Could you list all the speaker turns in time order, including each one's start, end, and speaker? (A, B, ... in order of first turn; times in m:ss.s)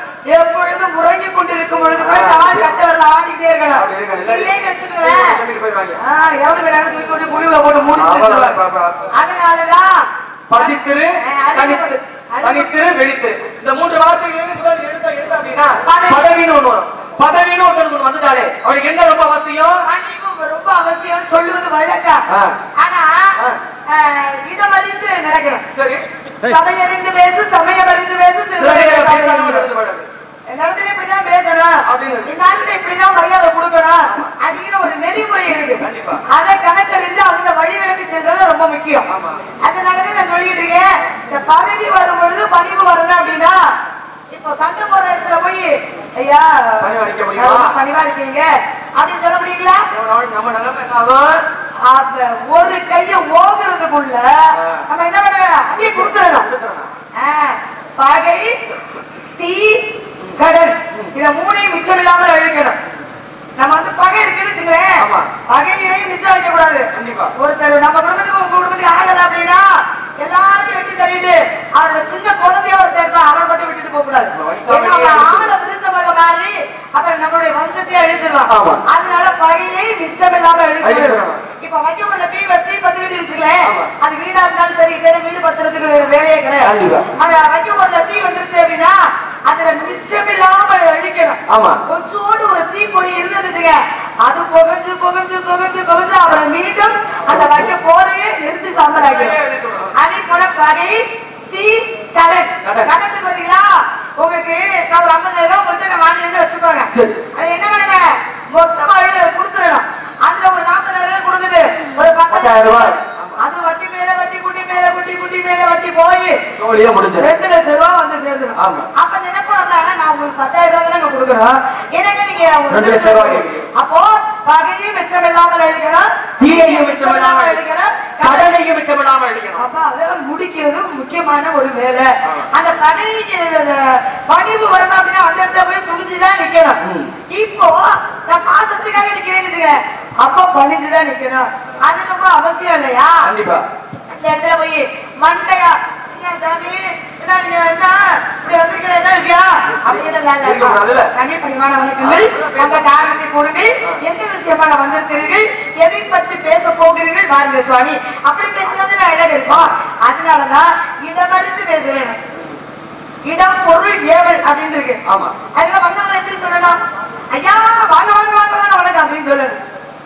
0:00.3-0:05.4 A
0:02.0-0:02.8 B
0:03.7-0:06.0 B
0:06.0-0:08.6 A
0:07.9-0:09.1 B
0:09.1-0:12.7 A
0:10.5-0:19.8 B
0:15.8-0:16.3 A
0:19.8-0:22.2 A
0:22.3-0:22.6 B
0:22.8-0:25.7 A
0:25.7-0:26.0 B
0:26.4-0:29.7 A
0:28.6-0:30.1 B
0:30.5-0:39.1 A
0:31.9-0:32.4 B
0:34.1-0:34.4 B
0:35.8-0:36.2 B
0:39.1-0:39.4 B
0:39.6-0:43.7 A
0:44.3-0:49.8 A
0:46.8-0:47.8 B
0:49.9-0:51.4 B
0:51.8-0:56.5 A
0:54.6-0:54.8 B
0:55.8-0:56.9 B
0:57.2-0:58.6 A
0:59.4-1:02.8 A
1:03.6-1:39.4 A
1:05.0-1:05.3 B
1:07.0-1:07.3 B
1:14.3-1:15.5 B
1:18.5-1:18.8 B
1:20.8-1:21.4 B
1:23.6-1:23.9 B
1:26.6-1:27.1 B
1:31.5-1:31.8 B
1:37.3-1:37.6 B
1:39.0-1:40.0 B
1:40.0-1:56.4 A
1:42.6-1:42.9 B
1:46.9-1:47.2 B
1:52.3-1:53.4 B
1:56.6-1:57.3 B
1:57.2-2:08.5 A
1:58.6-1:58.9 B
2:02.7-2:03.7 B
2:06.4-2:07.6 B
2:08.2-2:09.6 B
2:09.6-2:23.3 A
2:16.8-2:17.1 B
2:23.2-2:23.6 B
2:24.1-2:42.2 A
2:29.8-2:31.1 B
2:32.0-2:33.0 B
2:39.5-2:39.7 B
2:43.3-2:45.0 A
2:45.1-2:45.4 B
2:45.5-2:46.8 A
2:47.3-2:49.6 A